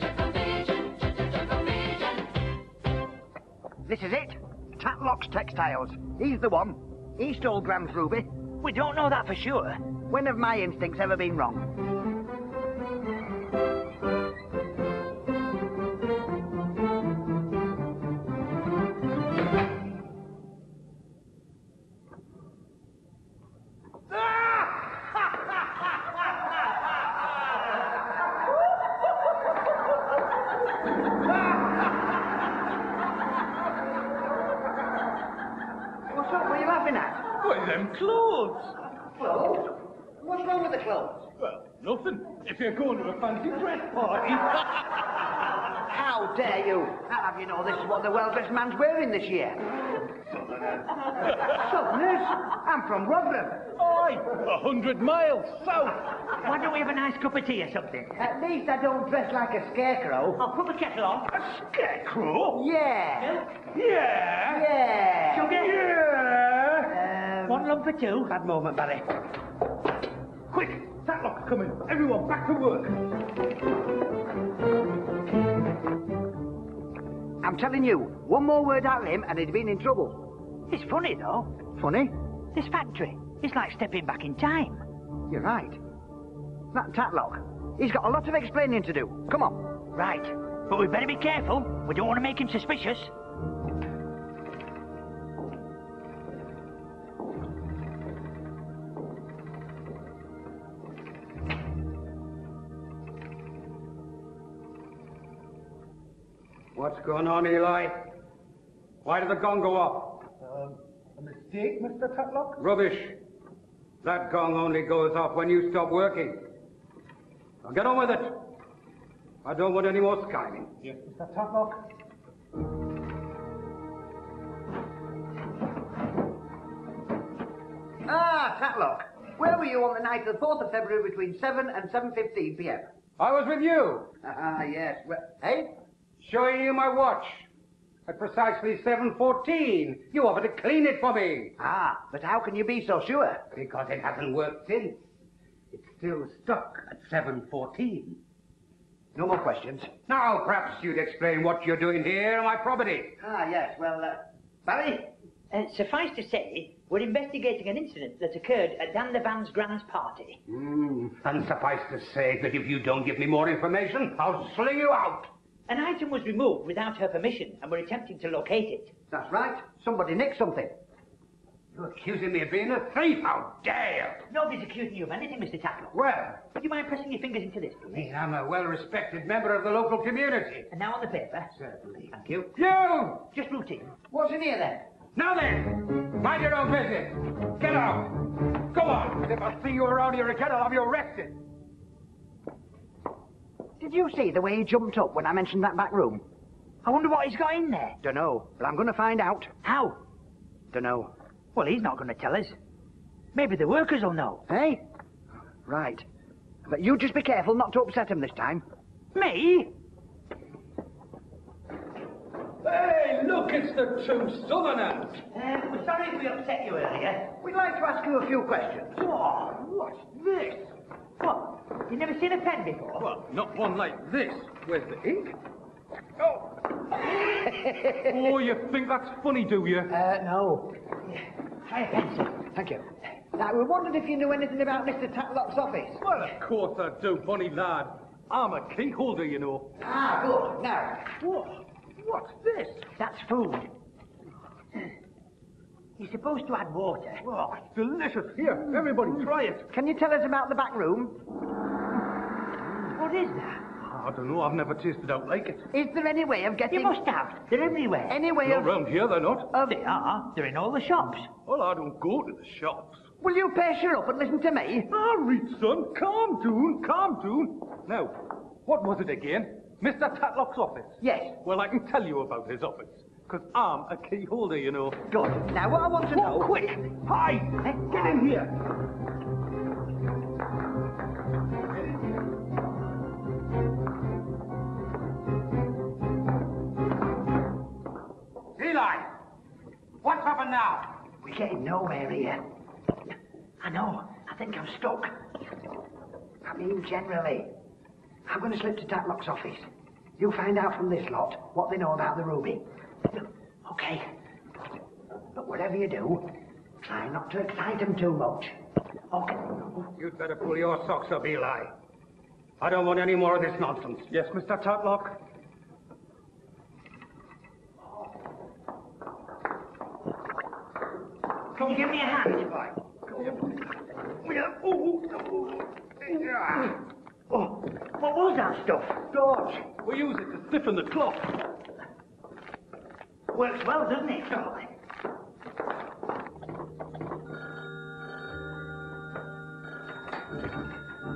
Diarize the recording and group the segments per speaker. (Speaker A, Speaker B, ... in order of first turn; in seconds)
Speaker A: 0.3-0.8, 1.8-2.0, 8.6-9.9, 56.3-58.2, 60.4-61.4, 63.2-63.5, 65.3-65.8, 67.4-68.3, 80.7-81.5, 82.5-84.8, 89.9-93.1, 155.5-160.4, 165.7-168.9, 174.3-177.9, 180.7-181.5, 182.1-182.5, 183.3-183.9, 196.8-198.0, 199.6-200.0, 201.5-202.6, 203.3-204.4, 209.1-209.7, 215.3-217.3, 219.0-219.6, 221.2-223.1, 231.6-232.3, 242.9-243.7, 246.0-247.2, 252.9-253.6, 256.7-258.2, 259.6-261.3, 293.6-295.1, 303.6-304.1, 309.1-309.6, 321.5-322.7, 327.3-329.0, 333.3-334.7
Speaker B: 3.8-8.3, 10.1-11.8, 36.1-37.2, 39.1-41.3, 45.8-49.6, 51.4-53.6, 58.2-60.4, 62.5-63.4, 64.5-65.6, 66.9-67.7, 77.4-80.2, 81.7-82.1, 85.3-85.8, 86.7-89.6, 128.0-132.9, 134.2-135.7, 141.6-143.4, 149.1-149.9, 153.2-155.1, 169.1-170.7, 184.1-184.9, 193.8-196.2, 198.0-199.5, 200.7-201.1, 204.5-204.8, 205.7-206.0, 206.7-208.6, 217.4-219.0, 229.9-230.8, 232.3-236.1, 239.8-241.1, 249.7-251.2, 255.7-257.0, 258.1-258.7, 263.2-264.9, 271.0-271.4, 275.1-276.7, 291.2-292.4, 296.4-297.5, 298.2-299.7, 300.2-302.6, 305.3-306.3, 306.8-308.5
Speaker C: 37.3-38.8, 41.4-45.0, 50.5-51.5, 53.7-56.1, 61.3-62.6, 63.6-64.7, 65.4-67.0, 70.5-73.0, 110.4-112.6, 120.8-121.8, 212.6-215.2, 219.9-220.6, 223.0-225.3, 227.2-229.9, 236.0-239.7, 241.2-242.9, 247.2-249.6, 253.8-255.6, 258.4-259.5, 261.4-263.0, 264.9-275.1, 276.1-278.6, 314.1-315.2, 323.2-323.4, 324.2-326.7, 329.1-331.4
Speaker D: 68.3-69.1, 106.7-108.1, 109.0-110.3, 112.6-113.2, 114.0-116.5, 117.6-118.5, 119.4-120.7, 133.2-134.2, 136.2-137.5, 138.1-141.6, 143.5-145.0, 145.7-148.2, 150.0-153.2, 160.5-165.3, 171.7-174.2, 175.9-176.4, 177.9-180.7, 181.6-183.3, 185.1-191.4, 288.6-289.1, 290.0-291.0, 309.8-311.7, 312.6-314.1